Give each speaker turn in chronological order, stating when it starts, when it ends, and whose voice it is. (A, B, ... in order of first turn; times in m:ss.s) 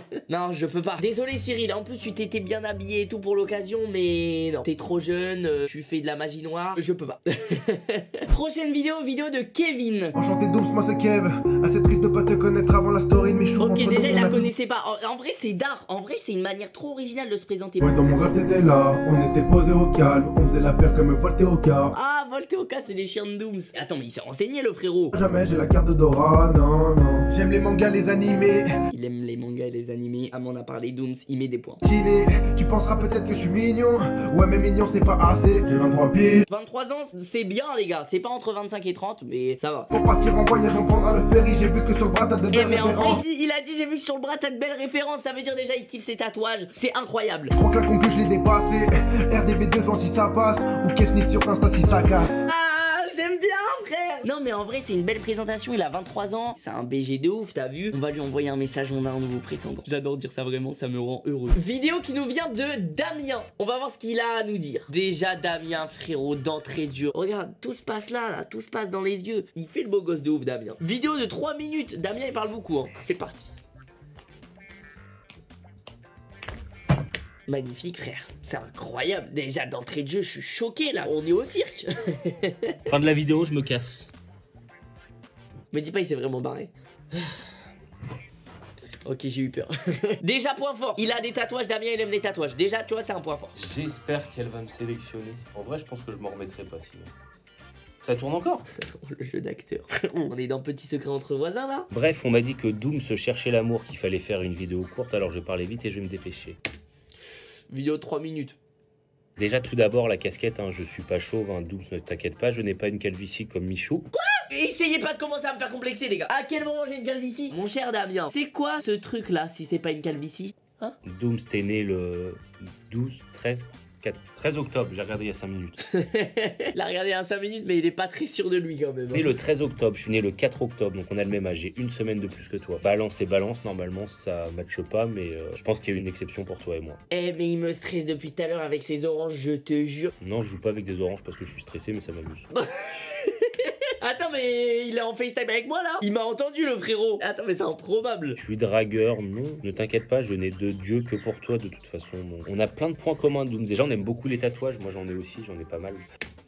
0:00.3-0:10.2 A
0:10.2-0:14.5 B
0:13.6-0:18.2 A
0:17.8-0:21.9 B
0:21.9-0:25.2 A
0:25.1-0:28.7 B
0:28.9-0:31.8 A
0:31.8-0:36.4 B
0:36.5-0:39.9 A
0:39.9-0:43.2 B
0:42.5-0:47.5 A
0:47.5-0:52.4 B
0:52.5-1:13.6 A
1:17.5-1:22.7 A
1:22.9-1:24.1 C
1:25.7-1:26.7 A
1:29.0-1:33.6 A
1:33.6-1:37.1 C
1:38.0-1:38.6 C
1:38.8-1:41.9 A
1:41.9-1:46.6 C
1:47.7-1:48.6 A
1:49.4-1:54.1 C
1:54.1-2:01.0 A
2:01.0-2:05.8 C
2:05.9-2:09.3 A
2:09.1-2:17.0 C
2:17.1-2:20.1 A
2:20.2-2:22.4 C
2:22.6-2:23.5 A
2:24.0-2:28.4 A
2:28.4-2:36.0 C